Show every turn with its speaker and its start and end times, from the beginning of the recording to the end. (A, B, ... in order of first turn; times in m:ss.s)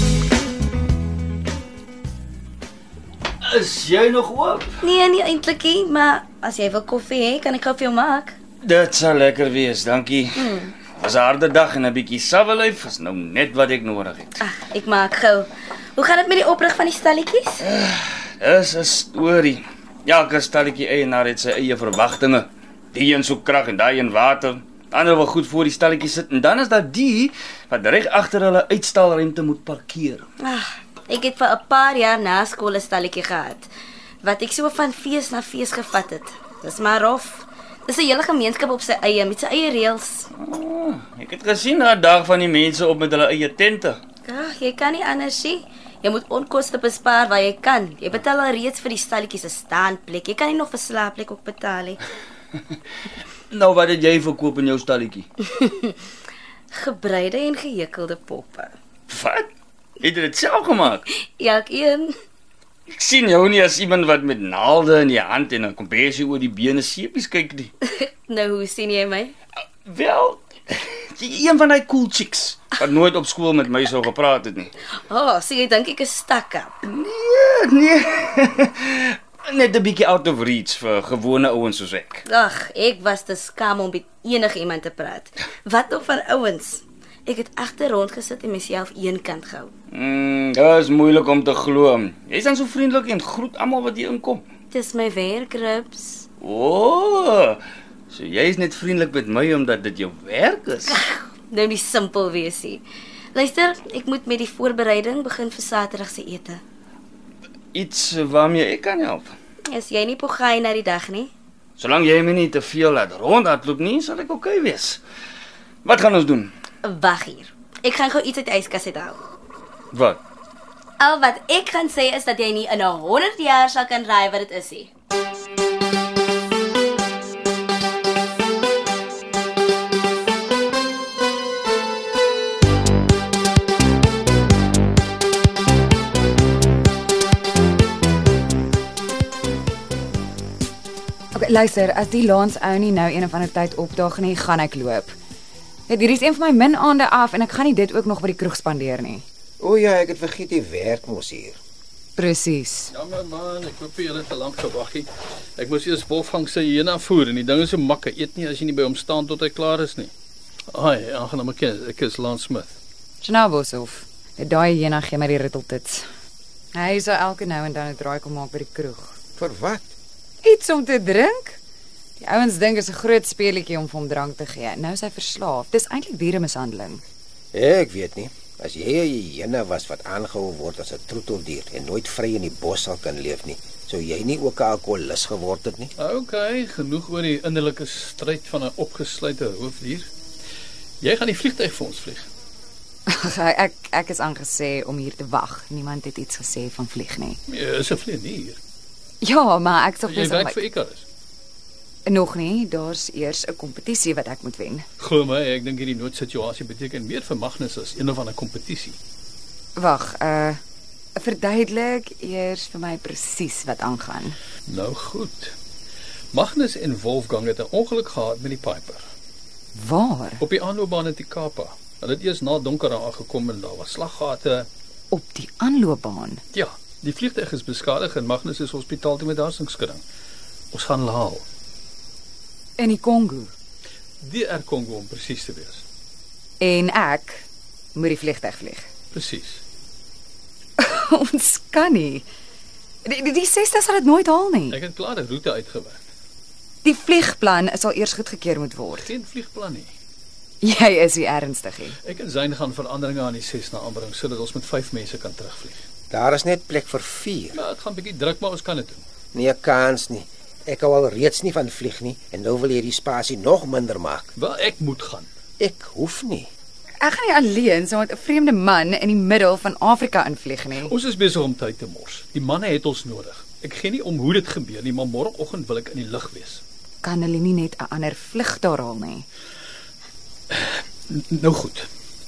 0:03.4-0:04.7 A
0:04.8-0:08.4 B
0:08.6-0:14.4 A
0:10.4-0:10.8 B
0:14.4-0:17.7 B
0:17.6-0:30.3 A
0:30.4-0:33.7 B
0:34.2-0:40.3 B
0:40.3-0:44.0 A
0:44.2-0:52.0 B
0:53.5-0:55.2 A
0:55.4-0:56.0 B
0:56.7-0:58.7 B
0:59.1-0:59.4 A
1:00.0-1:01.0 A
1:01.1-1:02.1 B
1:02.9-1:07.7 A
1:07.8-1:09.3 B
1:09.9-1:14.7 A
1:15.1-1:16.8 B
1:16.8-1:22.2 A
1:22.2-1:29.7 B
1:29.9-1:34.4 A
1:34.7-1:36.2 B
1:36.4-1:41.0 A
1:40.9-1:42.8 B
1:43.3-1:46.6 B
1:47.7-1:49.3 A
1:49.7-1:51.3 B
1:51.8-1:55.0 A
1:55.8-1:56.5 A
1:56.8-1:59.2 B
1:59.9-2:00.2 A
2:01.0-2:04.9 B
2:21.3-2:25.1 C
2:25.9-2:29.2 C
2:29.6-2:31.6 D
2:32.2-2:32.9 C
2:32.9-2:40.1 E
2:40.7-2:42.8 E
2:43.2-2:46.0 C
2:46.8-2:49.2 C
2:49.4-2:49.9 D
2:50.4-2:51.6 C
2:52.2-2:57.0 C
2:57.5-3:05.9 D
3:06.0-3:10.1 E
3:11.0-3:12.3 E
3:13.1-3:17.4 C
3:17.5-3:18.6 E
3:19.2-3:20.6 C
3:20.0-3:21.0 E
3:22.1-3:24.9 C
3:25.0-3:29.0 E
3:29.8-3:30.6 C
3:31.2-3:34.4 C
3:34.6-3:35.6 E
3:36.3-3:39.0 E
3:39.8-3:40.4 C
3:40.4-3:44.7 E
3:45.1-3:46.4 C
3:46.5-3:50.0 E
3:50.7-3:51.4 E
3:52.8-3:53.5 C
3:54.2-3:55.8 E
3:56.6-3:58.9 C
3:59.1-3:59.6 E
4:00.8-4:02.2 C
4:03.0-4:04.8 C
4:04.7-4:06.0 E
4:06.8-4:09.1 C
4:08.9-4:09.9 E
4:10.6-4:12.0 C
4:12.0-4:15.8 E
4:16.1-4:17.6 D
4:17.5-4:19.0 E
4:19.3-4:24.3 D
4:24.4-4:25.3 E
4:25.6-4:26.5 D
4:27.0-4:30.9 C
4:30.8-4:36.6 E
4:37.0-4:39.2 C
4:40.5-4:41.9 E